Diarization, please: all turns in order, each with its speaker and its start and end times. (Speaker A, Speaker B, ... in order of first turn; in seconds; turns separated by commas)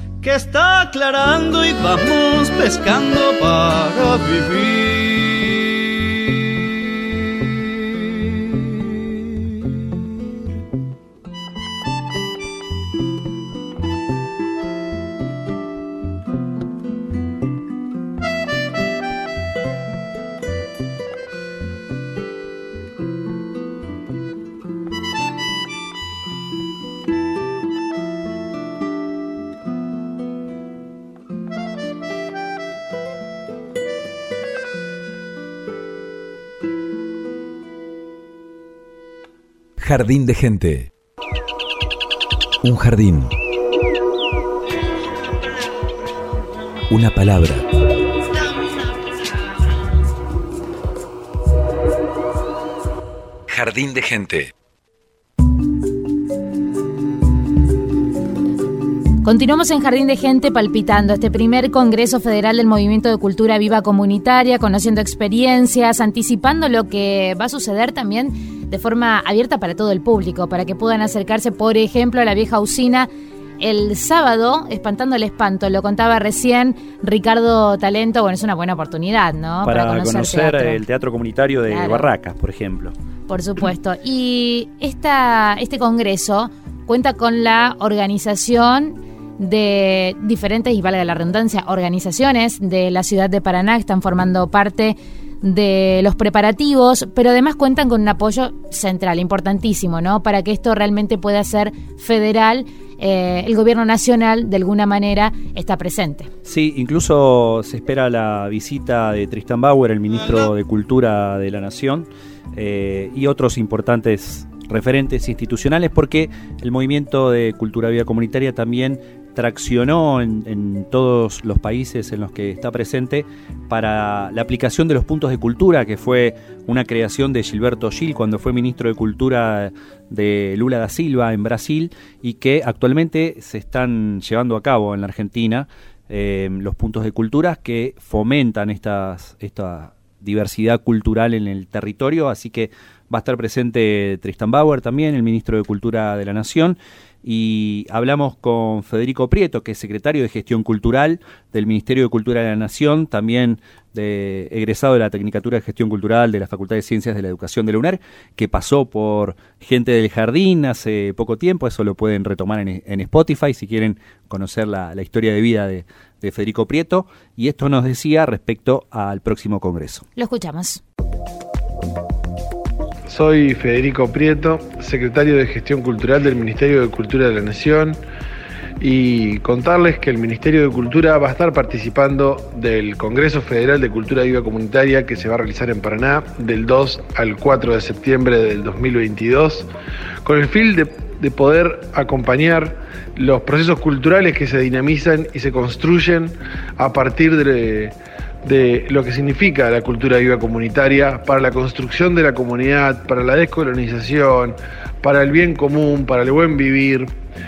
Speaker A: 0.2-5.6, Speaker B: 39.8-40.9, Speaker B: 42.6-43.3, Speaker B: 46.9-47.6, Speaker B: 53.5-54.5, Speaker C: 59.2-80.8, Speaker D: 79.6-82.9, Speaker C: 81.7-82.1, Speaker C: 83.3-106.3, Speaker D: 106.4-170.1, Speaker C: 170.2-170.8, Speaker E: 173.1-178.0, Speaker E: 178.8-189.7, Speaker E: 190.2-207.1